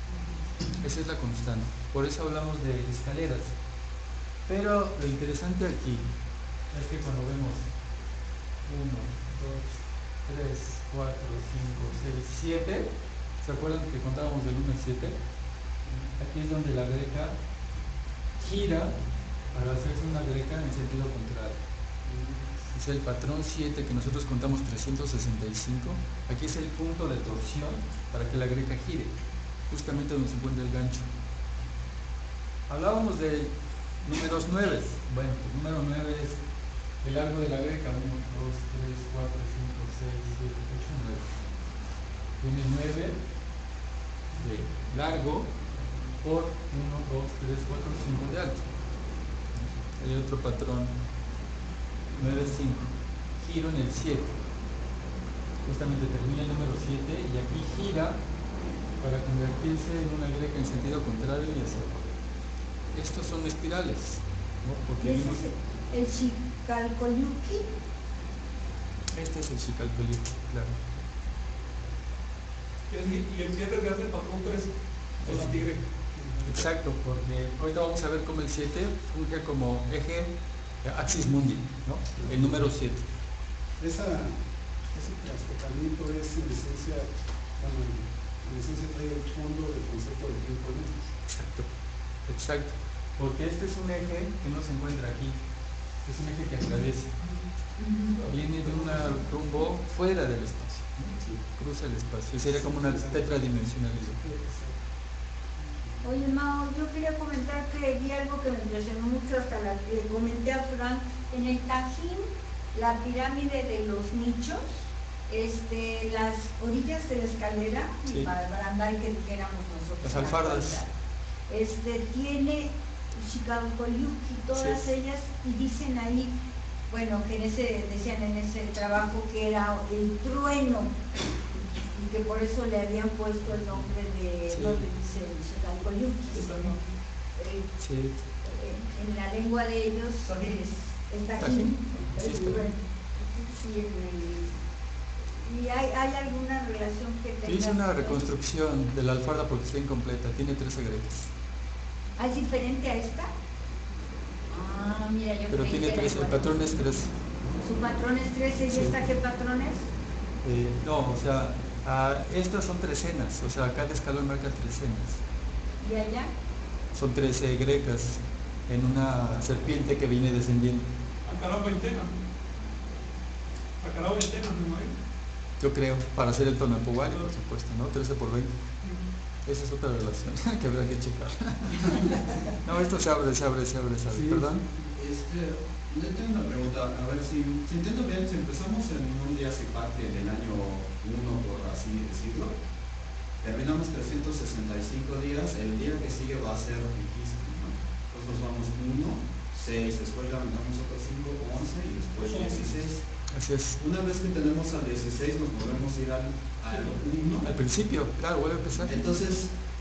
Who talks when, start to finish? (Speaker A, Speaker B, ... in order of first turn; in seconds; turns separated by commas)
Speaker A: 0.8-3.5, Speaker A: 4.5-6.1, Speaker A: 6.7-7.7, Speaker A: 8.6-9.7, Speaker A: 10.2-15.2, Speaker B: 15.8-16.1, Speaker A: 16.2-17.4, Speaker A: 18.4-19.0, Speaker A: 19.5-21.6, Speaker B: 22.0-22.5, Speaker A: 22.7-29.1, Speaker A: 29.7-31.1, Speaker A: 32.7-36.4, Speaker A: 37.0-41.4, Speaker A: 42.4-43.2, Speaker A: 44.3-45.6, Speaker A: 46.2-48.7, Speaker A: 49.6-51.0, Speaker A: 52.1-54.4, Speaker A: 55.6-58.2, Speaker A: 59.0-62.0, Speaker A: 62.9-65.5, Speaker C: 65.0-67.7, Speaker A: 69.1-70.8, Speaker D: 72.9-75.9, Speaker A: 75.2-75.6, Speaker B: 76.2-76.5, Speaker A: 76.4-83.0, Speaker B: 82.2-82.6, Speaker B: 83.8-84.4, Speaker B: 84.9-91.1, Speaker A: 91.2-91.7, Speaker A: 92.3-95.4, Speaker A: 96.0-97.2, Speaker C: 97.8-98.2, Speaker B: 98.2-99.1, Speaker A: 98.2-104.2, Speaker B: 101.1-101.4, Speaker B: 102.4-103.3, Speaker B: 104.1-104.8, Speaker B: 105.6-106.1, Speaker C: 106.0-120.9, Speaker A: 120.0-120.8, Speaker C: 121.5-126.3, Speaker A: 124.5-124.9, Speaker C: 126.9-131.0, Speaker C: 131.9-136.8, Speaker A: 134.5-134.9, Speaker D: 136.3-136.9, Speaker C: 137.3-137.7, Speaker A: 137.8-138.2, Speaker C: 138.4-144.5, Speaker D: 140.3-140.5, Speaker A: 141.4-142.6, Speaker C: 145.4-148.3, Speaker A: 147.4-151.3, Speaker C: 152.2-153.3, Speaker C: 154.5-156.8, Speaker A: 155.5-157.2, Speaker C: 157.6-159.9, Speaker A: 158.7-159.0, Speaker A: 160.4-165.2, Speaker C: 165.8-166.3, Speaker A: 166.9-170.9, Speaker D: 171.2-172.1, Speaker D: 173.8-174.9, Speaker A: 175.6-178.6, Speaker D: 177.0-177.3, Speaker A: 179.4-184.7, Speaker B: 184.1-184.9, Speaker E: 184.9-192.6, Speaker E: 193.4-203.1, Speaker D: 202.2-202.6, Speaker A: 203.3-203.8, Speaker E: 203.8-207.5, Speaker D: 206.7-207.0, Speaker A: 207.4-209.0, Speaker E: 208.8-209.5